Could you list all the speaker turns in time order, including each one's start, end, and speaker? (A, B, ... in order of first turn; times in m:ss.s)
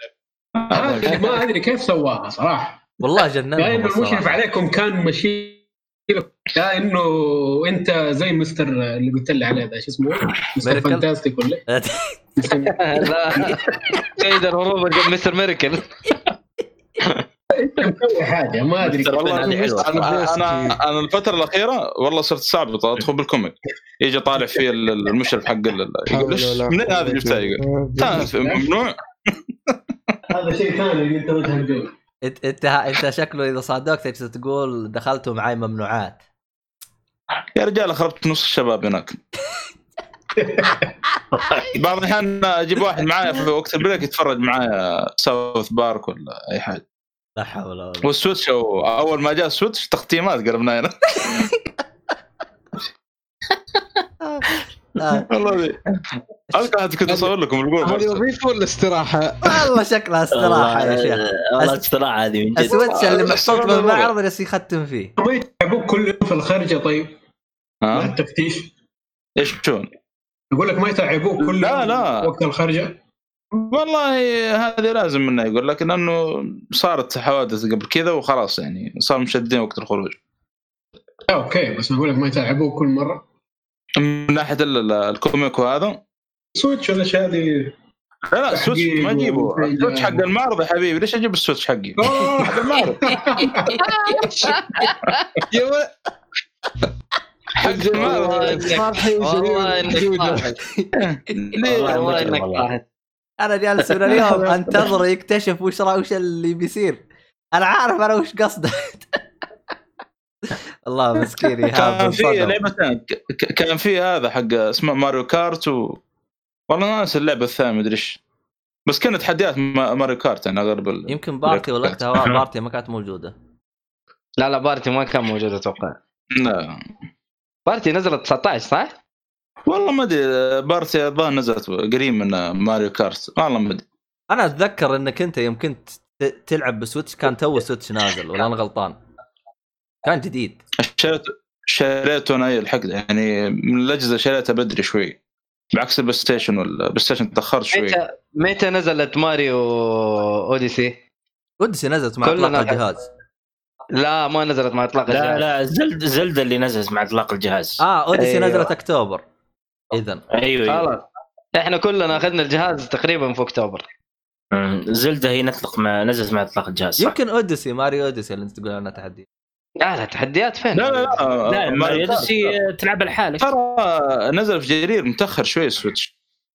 0:00.6-0:01.4 A
0:00.7-0:02.8 B
0:03.0-0:04.4 C
0:03.6-0:11.6 B
0:10.6-0:11.0 C
0:11.7-0:12.2 C
0:12.4-0:13.8 B
0:12.7-0:15.9 D
0:17.6-0:19.5 B
0:18.8-0:29.7 A
0:19.4-0:19.8 C
0:19.6-0:20.8 E
0:26.1-0:28.6 E
0:30.3-0:31.9 B
0:32.2-0:36.2 C
0:37.6-0:39.2 A
0:40.4-0:40.9 B
0:41.3-0:41.7 F
0:41.7-0:46.8 A
0:47.4-0:48.1 C
0:48.0-0:51.4 A
0:51.2-0:51.5 C
0:54.2-0:55.2 C
0:55.2-0:58.2 A
0:57.0-0:59.7 E
0:59.4-1:01.8 C
1:00.3-1:02.9 F
1:02.6-1:05.1 C
1:02.8-1:04.1 A
1:05.2-1:07.1 B
1:07.8-1:08.1 A
1:07.9-1:08.7 B
1:09.4-1:09.9 A
1:10.5-1:13.0 B
1:11.4-1:12.3 A
1:13.5-1:20.2 A
1:21.3-1:23.2 B
1:24.0-1:26.0 A
1:26.5-1:27.7 B
1:28.3-1:32.3 A
1:28.5-1:30.2 B
1:32.0-1:33.7 B
1:32.8-1:33.8 C
1:34.0-1:34.9 D
1:35.5-1:35.9 E
1:37.6-1:40.6 E
1:37.6-1:38.8 A
1:38.0-1:40.5 D
1:41.0-1:42.3 A
1:41.8-1:42.8 D
1:41.8-1:42.7 F
1:43.4-1:47.0 C
1:47.5-1:49.1 C
1:50.9-1:52.6 C
1:51.7-1:56.0 A
1:56.7-1:58.2 A
1:58.9-2:02.4 A
2:01.1-2:03.3 C
2:04.4-2:06.0 D
2:06.3-2:06.8 A
2:07.7-2:09.0 D
2:09.7-2:13.8 A
2:14.3-2:19.0 C
2:20.0-2:20.6 C
2:20.8-2:25.2 A
2:25.7-2:28.0 A
2:27.7-2:31.0 D
2:31.6-2:33.0 C
2:32.2-2:32.8 D
2:34.0-2:35.4 D
2:35.1-2:38.7 F
2:37.8-2:39.2 C
2:39.9-2:40.2 C
2:40.3-2:40.9 F
2:40.7-2:41.0 D
2:41.6-2:43.8 D
2:44.5-2:47.1 F
2:47.0-2:49.2 C
2:49.8-2:51.2 D
2:50.7-2:52.5 A
2:51.5-2:53.5 F
2:53.4-2:56.1 A